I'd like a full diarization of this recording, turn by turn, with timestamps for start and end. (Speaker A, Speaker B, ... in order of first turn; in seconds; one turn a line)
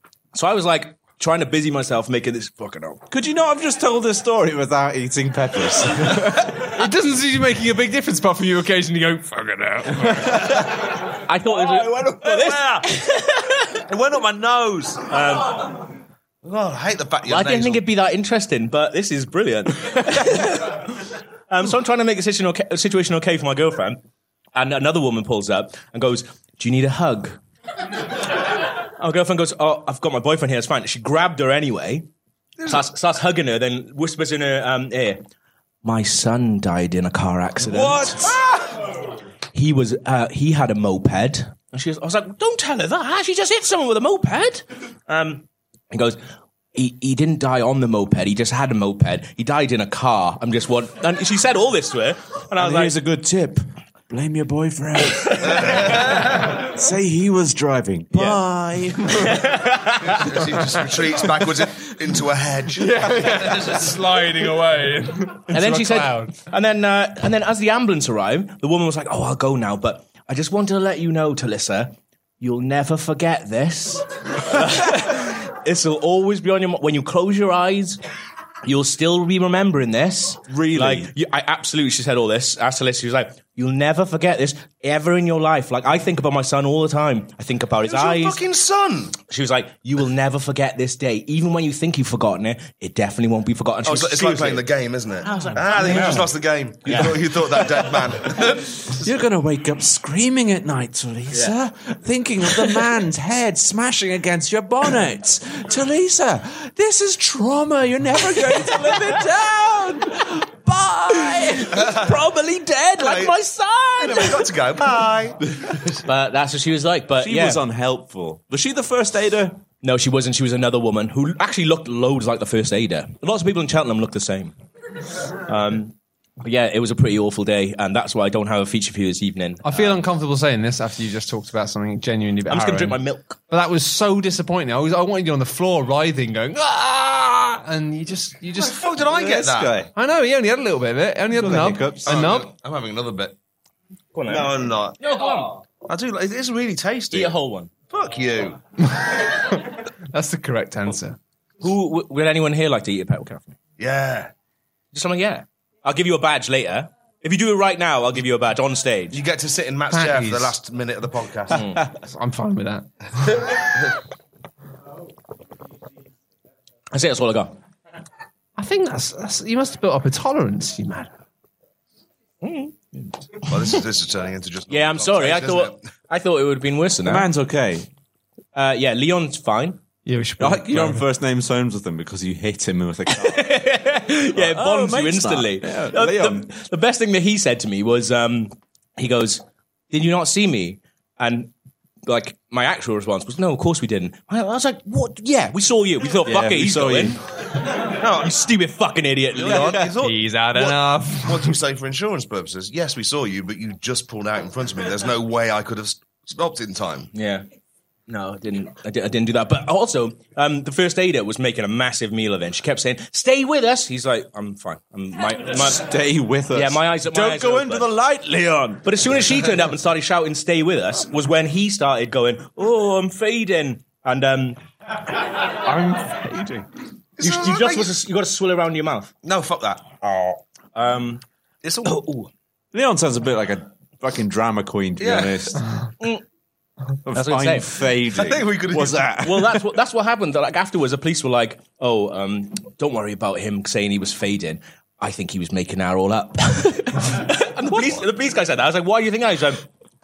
Speaker A: 0.3-3.0
Speaker B: 3.1-6.6
Speaker C: 6.6-10.5
Speaker A: 10.4-13.8
Speaker D: 11.5-12.9
Speaker D: 13.8-15.1
Speaker A: 15.1-15.8
Speaker D: 16.4-17.8
Speaker A: 17.2-24.0
Speaker A: 24.5-27.4
Speaker A: 29.0-32.1
Speaker A: 32.6-35.2
Speaker A: 35.8-38.3
Speaker D: 37.7-38.6
Speaker A: 39.5-46.2
Speaker A: 46.7-52.9
Speaker B: 52.6-59.4
Speaker A: 55.2-56.4
Speaker A: 58.1-58.4
Speaker A: 59.0-60.4
Speaker D: 60.0-63.5
Speaker C: 62.7-66.3
Speaker A: 65.5-78.0
Speaker A: 78.6-88.4
Speaker B: 80.5-81.1
Speaker D: 87.8-89.2
Speaker A: 89.2-94.6
Speaker D: 93.8-99.0
Speaker A: 95.2-98.5
Speaker B: 95.8-96.2
Speaker B: 98.9-111.9
Speaker A: 108.6-109.0
Speaker A: 111.3-114.5
Speaker D: 111.8-112.1
Speaker D: 113.0-113.4
Speaker D: 114.0-115.4
Speaker A: 116.0-117.6
Speaker B: 117.2-119.6
Speaker A: 119.8-124.5
Speaker A: 125.4-130.0
Speaker C: 129.6-133.0
Speaker A: 132.5-133.4
Speaker C: 133.5-138.8
Speaker D: 138.6-139.9
Speaker B: 139.1-139.9
Speaker C: 139.9-142.5
Speaker B: 141.3-142.2
Speaker D: 142.0-143.3
Speaker A: 144.1-145.6
Speaker D: 144.3-145.0
Speaker D: 145.8-147.3
Speaker A: 147.1-147.7
Speaker D: 147.9-148.6
Speaker C: 148.9-151.2
Speaker A: 151.6-153.6
Speaker D: 153.8-154.3
Speaker A: 154.9-159.2
Speaker D: 159.1-161.8
Speaker C: 159.9-160.5
Speaker A: 161.5-161.8
Speaker C: 161.9-163.5
Speaker A: 166.9-167.6
Speaker C: 168.6-171.1
Speaker A: 172.4-173.4
Speaker D: 173.4-175.8
Speaker A: 174.7-177.3
Speaker B: 177.0-177.9
Speaker A: 178.5-179.8
Speaker C: 180.0-181.1
Speaker B: 180.4-183.6
Speaker A: 183.1-191.5
Speaker B: 184.3-186.5
Speaker A: 192.1-199.9
Speaker B: 196.2-197.2
Speaker D: 197.9-198.3
Speaker D: 199.3-207.1
Speaker C: 200.0-201.6
Speaker A: 207.1-207.4
Speaker A: 208.1-215.8
Speaker B: 215.5-218.8
Speaker A: 216.5-217.9
Speaker A: 218.8-224.6
Speaker B: 225.4-226.7
Speaker D: 227.2-227.9
Speaker A: 227.2-229.1
Speaker D: 229.2-230.3
Speaker A: 230.7-231.2
Speaker D: 231.6-232.1
Speaker A: 231.8-232.3
Speaker B: 232.7-235.6
Speaker D: 235.0-235.5
Speaker B: 237.0-239.7
Speaker A: 237.1-237.8
Speaker D: 238.1-239.2
Speaker A: 239.2-249.6